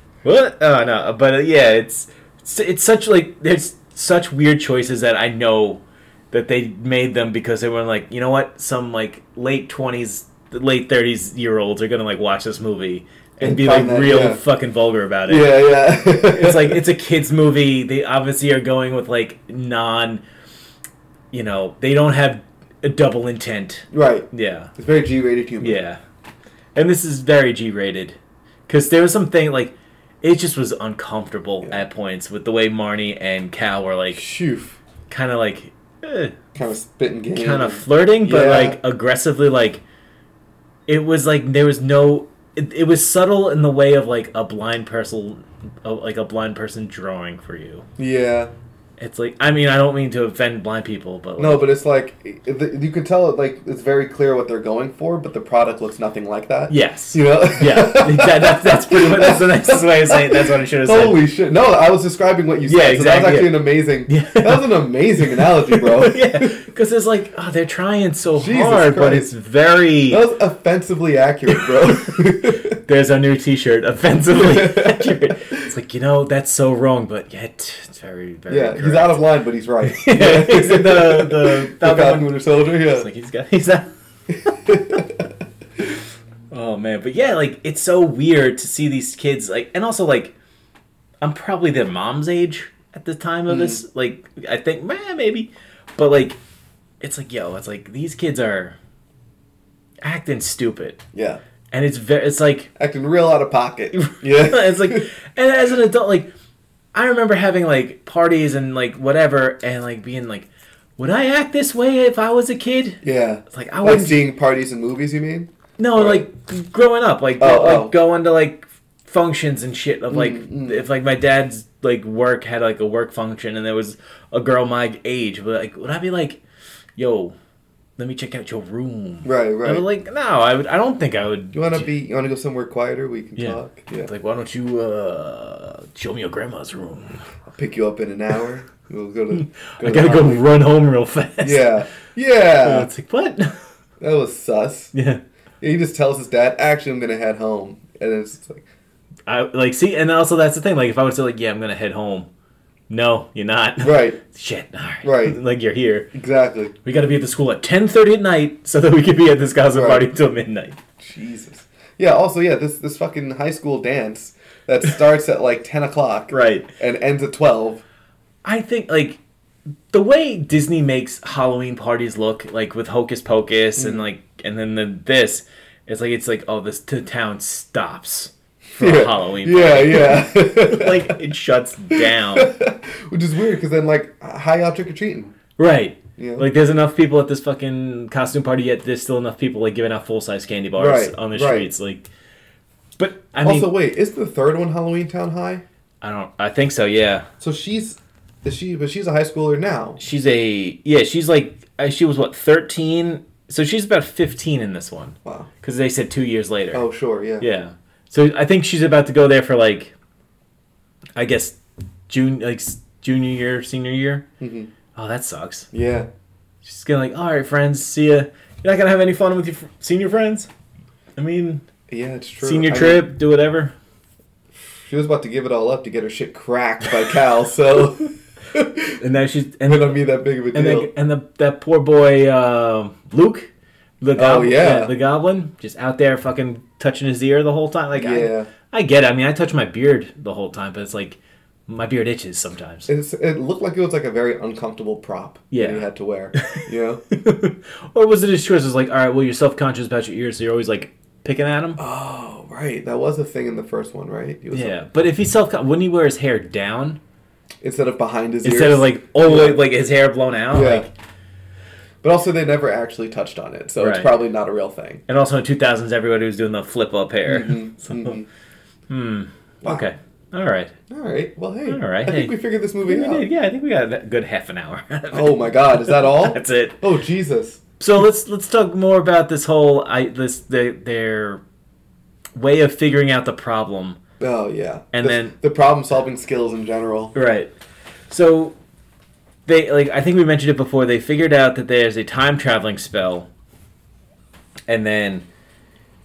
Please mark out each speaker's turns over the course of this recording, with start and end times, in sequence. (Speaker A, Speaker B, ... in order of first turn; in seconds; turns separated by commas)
Speaker A: 0.2-20.2, Speaker B: 13.4-14.4, Speaker B: 15.3-16.8, Speaker A: 21.3-24.7, Speaker B: 23.9-25.8, Speaker A: 25.6-26.0, Speaker A: 26.8-28.2, Speaker A: 28.7-34.3, Speaker B: 34.1-34.8, Speaker A: 35.1-36.4, Speaker B: 36.5-38.8, Speaker A: 37.4-39.8, Speaker A: 40.9-47.9, Speaker B: 48.0-48.5, Speaker A: 49.0-51.7, Speaker B: 51.4-66.6, Speaker A: 56.7-61.2, Speaker A: 62.7-70.2, Speaker B: 68.4-69.3, Speaker B: 70.1-72.8, Speaker A: 71.5-79.2, Speaker B: 74.3-75.7, Speaker B: 78.5-83.1, Speaker A: 79.8-83.9, Speaker B: 84.3-85.3, Speaker A: 84.5-85.0, Speaker A: 86.5-90.3, Speaker A: 91.2-96.4, Speaker B: 93.5-93.8, Speaker A: 97.0-98.8, Speaker A: 100.0-101.0, Speaker B: 101.1-101.4, Speaker A: 101.7-102.7, Speaker B: 102.8-105.1, Speaker A: 103.9-106.3, Speaker A: 106.9-114.2, Speaker B: 113.0-116.3, Speaker A: 115.8-126.4, Speaker B: 117.4-118.0, Speaker B: 120.1-120.8, Speaker A: 127.0-127.3, Speaker A: 128.0-131.9, Speaker B: 129.2-129.8, Speaker B: 131.5-134.1, Speaker A: 133.4-137.3, Speaker B: 137.5-140.5, Speaker A: 139.3-141.8, Speaker B: 141.4-142.9, Speaker A: 142.5-143.7, Speaker B: 144.0-144.9, Speaker A: 144.9-145.2, Speaker B: 145.6-148.7, Speaker A: 149.3-152.3, Speaker A: 152.9-156.1, Speaker B: 153.8-154.2, Speaker B: 155.0-155.4, Speaker B: 156.1-156.7, Speaker A: 156.8-160.8, Speaker B: 159.7-160.1, Speaker B: 161.0-167.8, Speaker A: 166.3-166.7, Speaker A: 168.4-169.2, Speaker A: 169.9-182.6, Speaker B: 173.8-174.1, Speaker B: 178.8-181.2, Speaker B: 181.9-185.4, Speaker A: 185.6-192.1, Speaker B: 186.2-186.5, Speaker B: 190.8-191.7, Speaker A: 193.0-193.7, Speaker B: 193.4-195.6, Speaker A: 196.0-197.3, Speaker B: 197.4-200.0, Speaker A: 200.0-206.8, Speaker B: 205.2-205.5, Speaker B: 206.7-207.5, Speaker A: 207.4-209.9, Speaker A: 211.2-211.6, Speaker A: 212.1-214.3, Speaker B: 214.4-214.7, Speaker A: 214.9-215.7, Speaker B: 215.7-216.1, Speaker A: 216.6-220.5, Speaker A: 221.2-221.7, Speaker B: 221.9-223.1, Speaker A: 222.4-223.8, Speaker B: 224.6-229.0, Speaker A: 229.0-242.9, Speaker B: 229.7-230.9, Speaker B: 234.2-234.9, Speaker B: 237.9-238.5, Speaker B: 242.9-247.0, Speaker A: 245.5-251.8, Speaker B: 251.8-254.8, Speaker A: 254.5-257.0, Speaker B: 257.6-259.7, Speaker A: 258.4-260.9, Speaker B: 260.5-260.9, Speaker B: 262.0-265.0, Speaker A: 263.8-264.2, Speaker A: 265.1-268.2, Speaker B: 267.3-268.3, Speaker A: 268.9-270.7, Speaker B: 270.9-273.3, Speaker A: 271.7-276.8, Speaker B: 275.1-277.6, Speaker A: 277.8-281.4, Speaker A: 282.4-284.0, Speaker B: 284.2-287.2, Speaker A: 284.9-285.4, Speaker A: 287.1-287.5, Speaker A: 288.1-288.6, Speaker A: 289.5-293.3, Speaker A: 294.7-295.3